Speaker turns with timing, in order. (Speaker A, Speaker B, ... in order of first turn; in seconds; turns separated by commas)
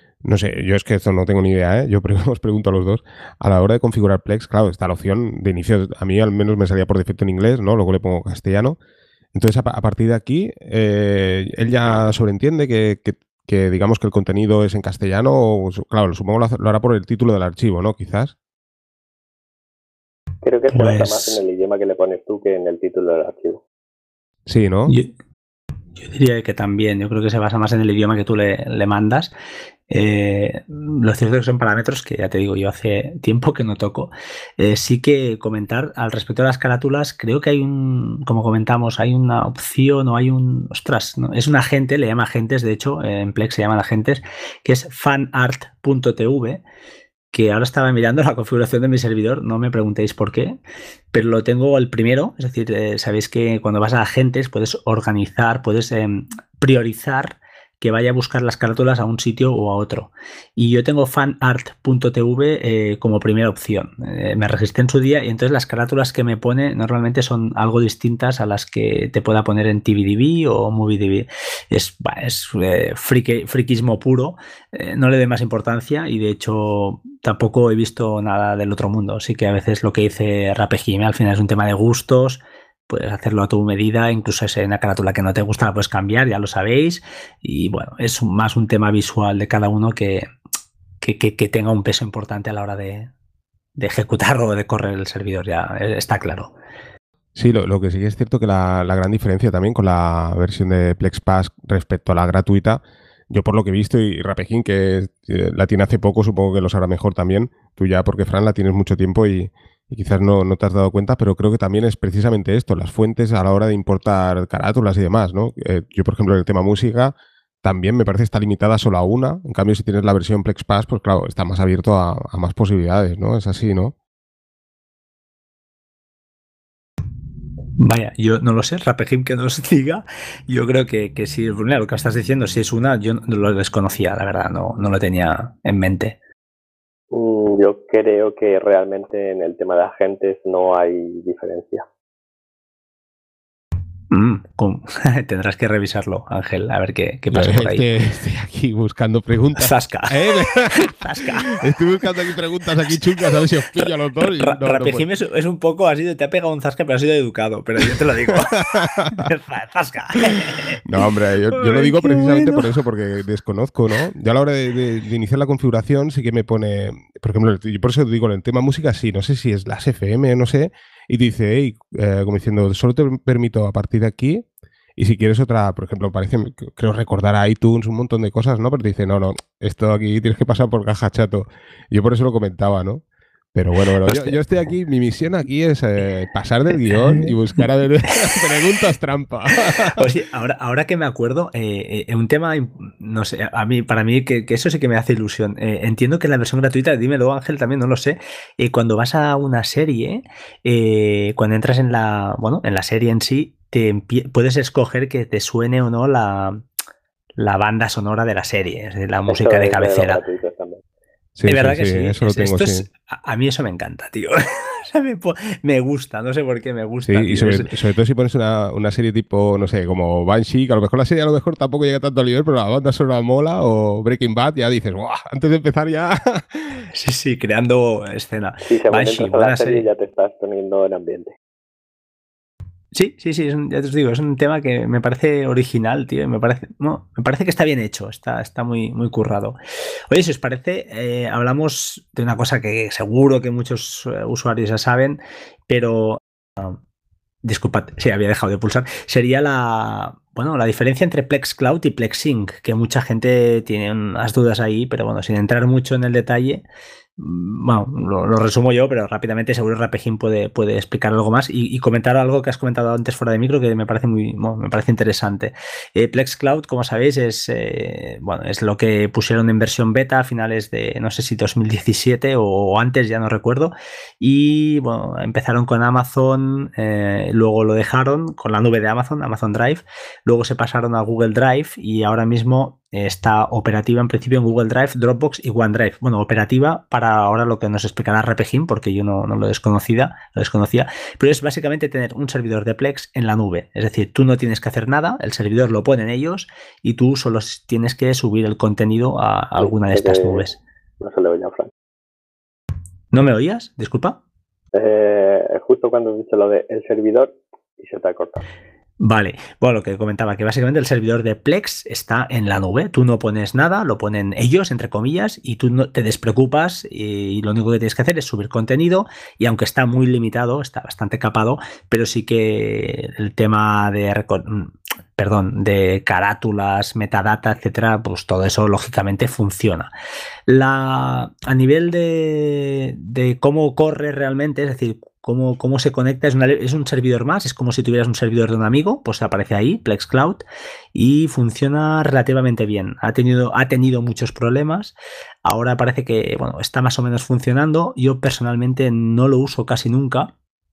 Speaker A: 0.2-8.8, Speaker A: 9.3-18.3, Speaker B: 20.4-23.6, Speaker C: 20.7-21.4, Speaker A: 24.4-24.9, Speaker C: 26.0-29.3, Speaker C: 29.9-46.6, Speaker C: 47.3-50.6, Speaker C: 51.1-90.2, Speaker C: 91.0-93.1, Speaker C: 93.8-96.5, Speaker A: 97.3-123.9, Speaker C: 127.8-136.2, Speaker B: 137.1-141.8, Speaker C: 144.1-147.9, Speaker A: 147.3-155.1, Speaker C: 149.6-151.6, Speaker C: 152.9-162.7, Speaker A: 158.7-159.2, Speaker A: 160.8-174.4, Speaker A: 175.0-190.1, Speaker C: 183.9-184.4, Speaker C: 186.9-188.6, Speaker C: 189.9-206.6, Speaker C: 207.4-210.2, Speaker B: 209.3-210.8, Speaker A: 211.3-212.8, Speaker C: 211.5-217.7, Speaker A: 217.1-226.9, Speaker C: 226.9-229.9, Speaker B: 228.7-231.3, Speaker C: 232.9-239.6, Speaker C: 240.1-246.8, Speaker C: 247.4-256.6, Speaker C: 257.2-300.6, Speaker B: 299.6-300.5, Speaker B: 301.0-301.7, Speaker C: 303.1-304.2, Speaker B: 304.7-308.4, Speaker C: 309.0-329.9, Speaker C: 330.5-340.4, Speaker C: 340.9-350.3